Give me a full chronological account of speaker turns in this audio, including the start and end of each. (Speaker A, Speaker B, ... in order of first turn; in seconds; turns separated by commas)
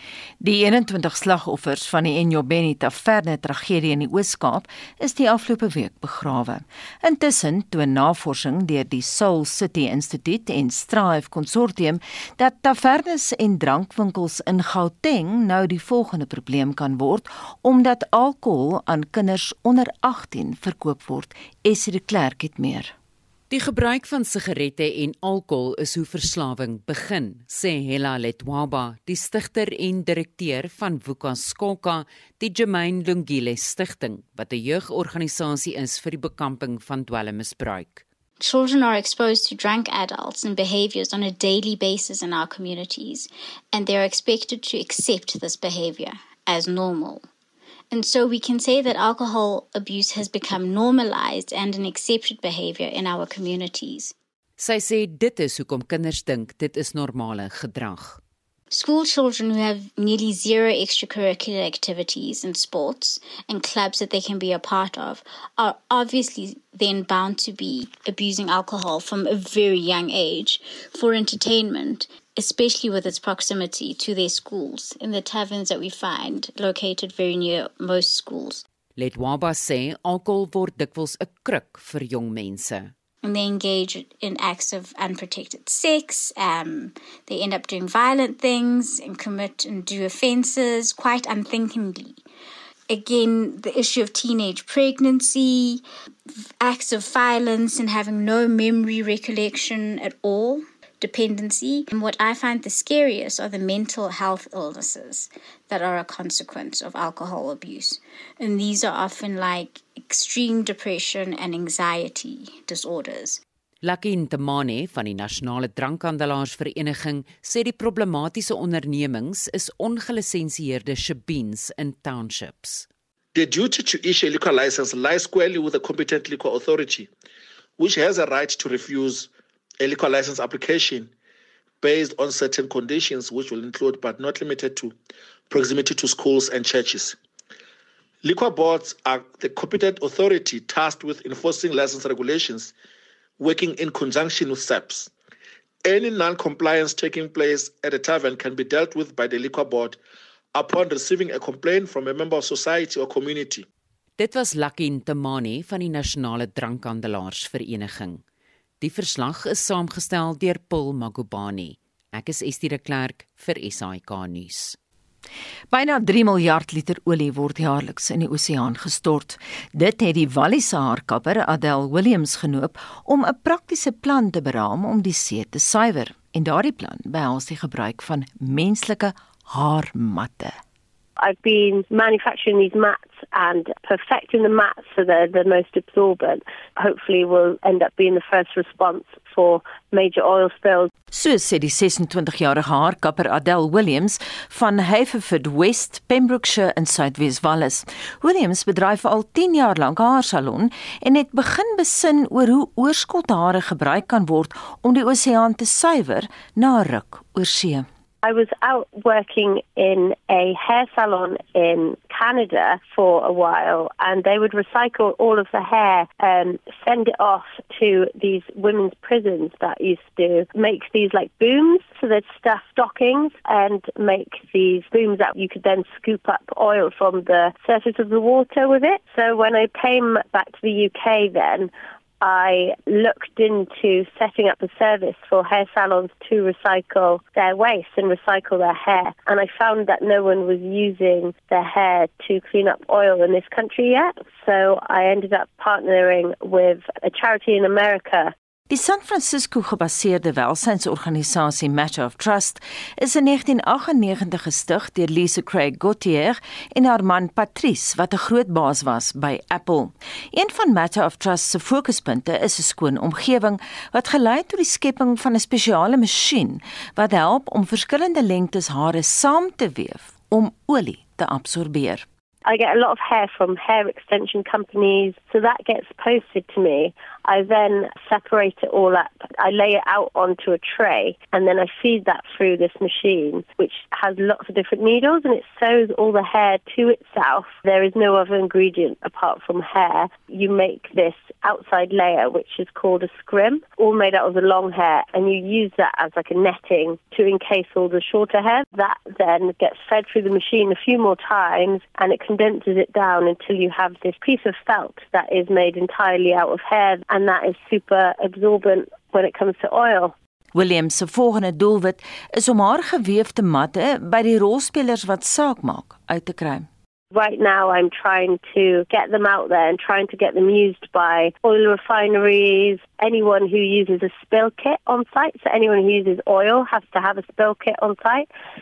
Speaker A: 0.4-22.9, Speaker B: 23.5-38.0, Speaker C: 38.4-47.2, Speaker C: 47.9-54.1, Speaker B: 54.6-58.2, Speaker C: 58.7-78.6, Speaker B: 79.0-82.9, Speaker C: 83.2-92.2, Speaker C: 92.9-95.8, Speaker C: 96.6-113.4, Speaker B: 113.8-122.9, Speaker D: 123.3-127.1, Speaker D: 127.8-129.3, Speaker D: 129.8-131.1, Speaker D: 131.8-134.9, Speaker D: 135.5-137.2, Speaker D: 138.2-142.7, Speaker D: 143.4-145.1, Speaker D: 145.8-150.0, Speaker D: 150.5-153.7, Speaker B: 154.2-158.2, Speaker B: 158.8-164.8, Speaker A: 165.7-180.6, Speaker E: 181.2-190.9, Speaker A: 191.1-207.8, Speaker E: 208.2-231.7, Speaker E: 232.2-248.3, Speaker A: 248.7-272.0, Speaker E: 272.4-310.1, Speaker A: 310.5-316.6, Speaker E: 317.1-328.3